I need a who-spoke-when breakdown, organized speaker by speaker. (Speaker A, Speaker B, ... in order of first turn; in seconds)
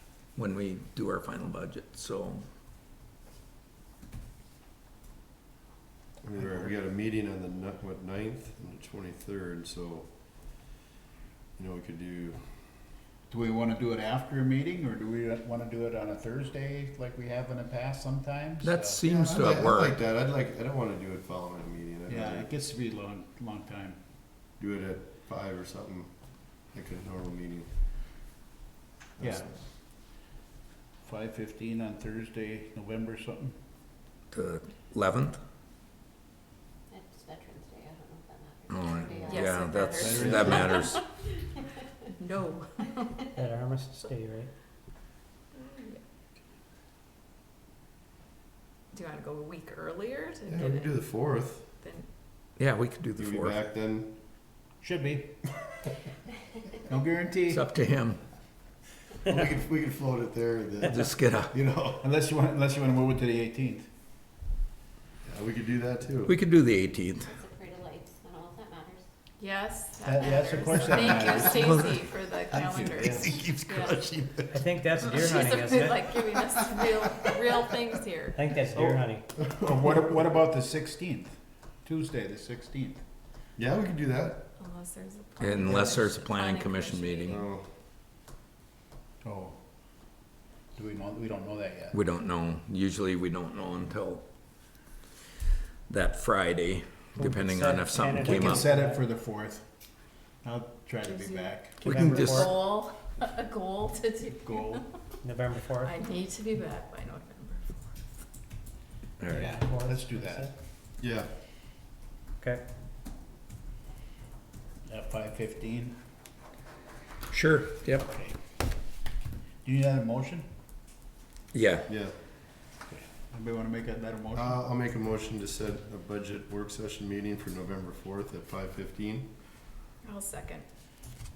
Speaker A: 0.3-2.4, 18.6-20.0, 34.3-35.4, 38.7-41.0, 52.5-53.6, 57.5-58.2, 60.9-61.5, 66.2-67.4, 71.5-72.0, 72.5-73.5, 85.4-87.4, 91.9-94.2, 95.9-98.7, 101.8-102.5, 109.2-109.6, 117.3-118.1, 121.5-121.9
Speaker B: 6.2-10.1, 11.6-12.7, 19.0-22.5, 24.6-27.7, 29.2-29.5, 50.5-51.7, 53.2-54.1, 59.2-62.0, 65.2-66.3, 72.5-74.5, 79.6-80.0, 83.6-84.5, 87.2-87.7, 111.0-111.3, 121.9-122.1, 124.3-129.3
Speaker C: 6.4-6.7, 13.3-19.5, 22.1-24.0, 29.2-29.5, 31.0-33.6, 39.9-40.9, 54.8-55.5, 56.9-57.6, 62.0-63.9, 70.0-72.0, 73.0-73.4, 78.6-83.0, 85.7-86.0, 89.2-89.6, 90.7-92.0, 98.2-99.7, 100.4-102.4, 104.3-104.9, 109.3-110.5, 114.8-116.0, 118.1-118.4, 119.6-120.5, 122.9-124.6
Speaker D: 36.9-39.0, 67.3-69.0
Speaker E: 39.1-41.0, 42.0-43.3, 45.5-46.0, 48.9-51.1, 51.8-52.1, 69.4-74.0, 75.0-78.4, 84.6-87.4, 101.0-104.8, 105.8-108.0, 130.0-130.6
Speaker F: 43.3-44.5, 74.5-76.2, 78.3-79.2, 97.2-99.0, 101.8-102.6, 105.2-106.0, 109.3-110.5